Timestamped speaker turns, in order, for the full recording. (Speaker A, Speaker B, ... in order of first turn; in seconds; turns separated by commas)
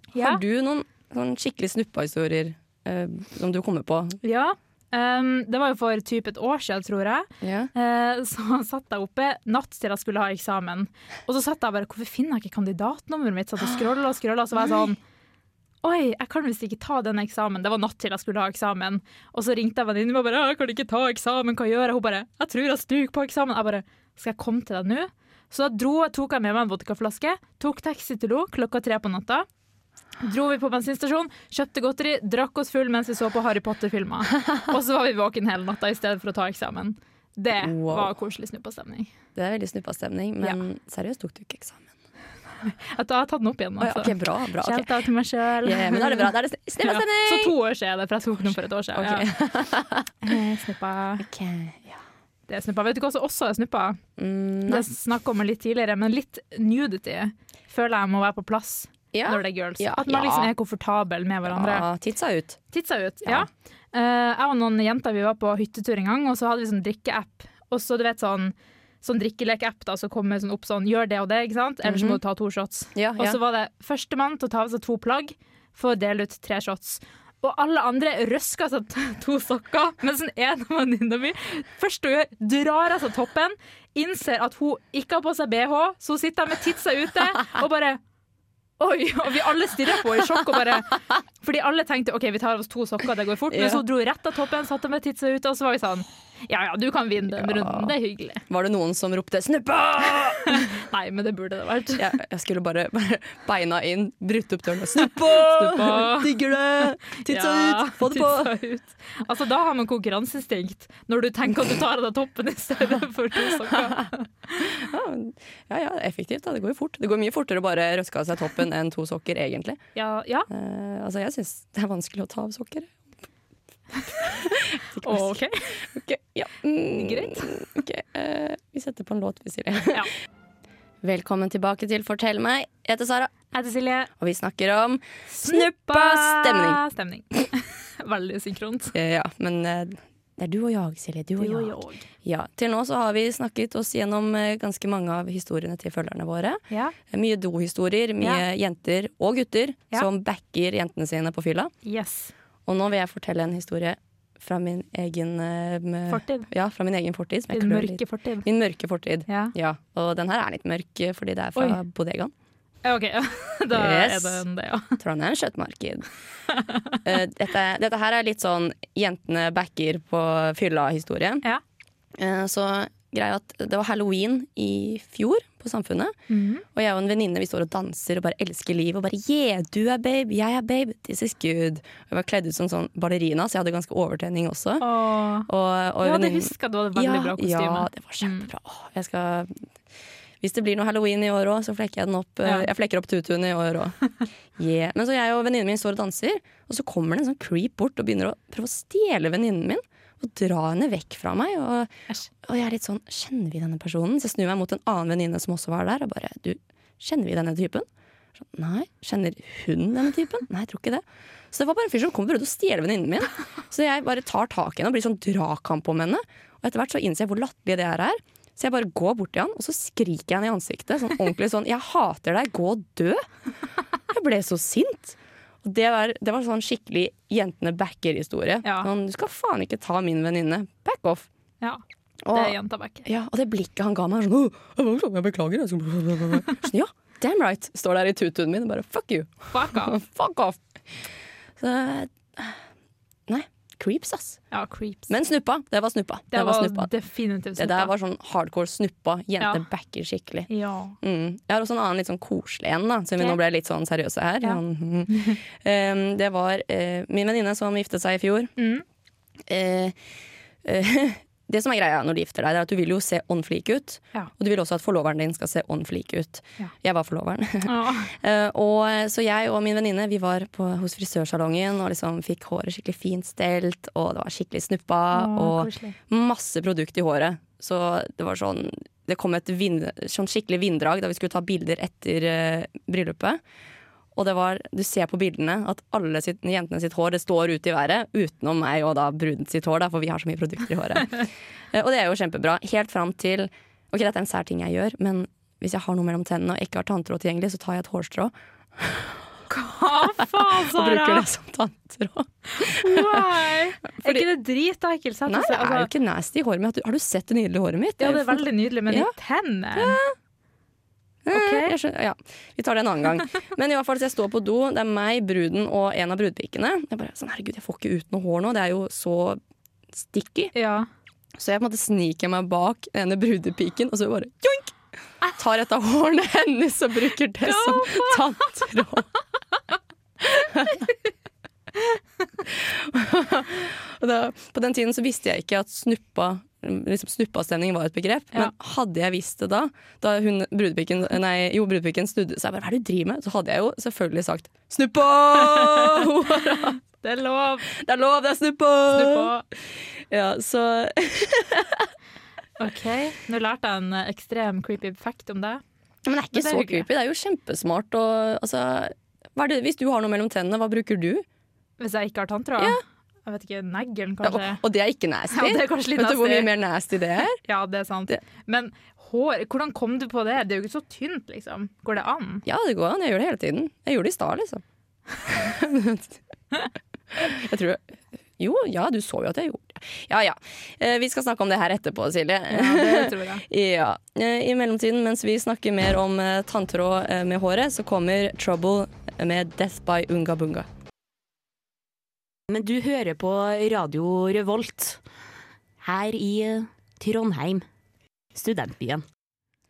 Speaker A: 0.1-0.4, Speaker B: 0.1-4.2, Speaker A: 4.2-15.0, Speaker B: 7.4-7.7, Speaker A: 15.8-29.5, Speaker A: 30.2-39.1, Speaker B: 37.5-38.1, Speaker B: 39.4-41.9, Speaker A: 42.6-49.3, Speaker B: 43.8-44.9, Speaker B: 45.6-47.5, Speaker B: 48.4-50.1, Speaker A: 50.2-51.3, Speaker B: 51.2-52.0, Speaker A: 52.5-54.0, Speaker B: 54.2-54.9, Speaker A: 54.7-61.9, Speaker B: 59.1-60.5, Speaker B: 61.5-62.6, Speaker A: 62.7-88.0, Speaker B: 71.8-72.2, Speaker B: 72.9-73.4, Speaker A: 88.8-98.4, Speaker B: 93.5-93.8, Speaker B: 97.3-97.9, Speaker B: 98.5-100.7, Speaker A: 100.4-102.1, Speaker B: 102.0-108.5, Speaker A: 105.0-106.3, Speaker A: 107.1-114.7, Speaker B: 113.7-114.0, Speaker B: 114.6-119.8, Speaker A: 119.9-120.5, Speaker B: 120.5-123.0, Speaker A: 124.0-124.4, Speaker B: 124.1-130.0, Speaker A: 125.0-125.8, Speaker A: 126.9-127.6, Speaker B: 131.0-133.3, Speaker A: 133.5-134.1, Speaker B: 134.2-136.8, Speaker A: 135.3-138.9, Speaker B: 138.9-151.7, Speaker A: 141.4-142.1, Speaker A: 146.7-146.9, Speaker A: 151.8-152.3, Speaker B: 152.7-162.3, Speaker A: 156.1-156.5, Speaker A: 157.5-158.5, Speaker A: 159.3-159.5, Speaker A: 162.8-165.0, Speaker B: 163.7-164.4, Speaker B: 165.0-166.1, Speaker A: 166.5-167.0, Speaker B: 167.0-171.4, Speaker B: 172.2-176.1, Speaker A: 176.3-176.6, Speaker B: 176.7-184.9, Speaker A: 184.8-185.5, Speaker B: 185.4-189.6, Speaker A: 186.0-188.5, Speaker B: 190.4-193.9, Speaker B: 194.5-223.2, Speaker B: 224.1-231.3, Speaker A: 228.6-228.9, Speaker B: 232.2-242.6, Speaker A: 232.3-233.0, Speaker A: 239.5-240.0, Speaker B: 243.3-244.4, Speaker A: 244.5-245.1, Speaker B: 245.1-246.9, Speaker A: 246.3-247.9, Speaker B: 247.6-250.5, Speaker A: 250.5-250.9, Speaker B: 251.0-258.5, Speaker A: 254.4-255.4, Speaker A: 258.6-258.8, Speaker B: 259.5-259.9, Speaker B: 260.6-283.4, Speaker A: 267.6-268.1, Speaker A: 275.1-275.9, Speaker B: 284.1-299.2, Speaker A: 299.5-301.2, Speaker B: 300.1-303.3, Speaker A: 302.5-305.9, Speaker B: 304.0-304.3, Speaker B: 305.3-309.1, Speaker A: 308.0-310.0, Speaker B: 309.7-310.1, Speaker B: 311.2-319.4, Speaker A: 311.3-311.7, Speaker B: 319.9-320.5, Speaker A: 320.5-320.9, Speaker B: 321.4-324.7, Speaker B: 325.3-329.1, Speaker A: 327.4-328.4, Speaker B: 330.2-330.9, Speaker B: 332.4-346.8, Speaker A: 345.6-346.0, Speaker A: 347.0-347.7, Speaker B: 347.7-351.9, Speaker A: 348.9-349.4, Speaker A: 352.6-355.6, Speaker B: 356.1-361.2, Speaker A: 356.3-356.9, Speaker A: 361.8-364.6, Speaker B: 364.2-367.4, Speaker A: 365.3-366.5, Speaker A: 367.4-372.4, Speaker B: 372.4-374.6, Speaker B: 375.2-376.2, Speaker B: 377.1-377.8, Speaker B: 378.4-390.7, Speaker A: 382.5-383.4, Speaker C: 392.5-395.0, Speaker C: 395.8-397.6, Speaker C: 398.4-399.0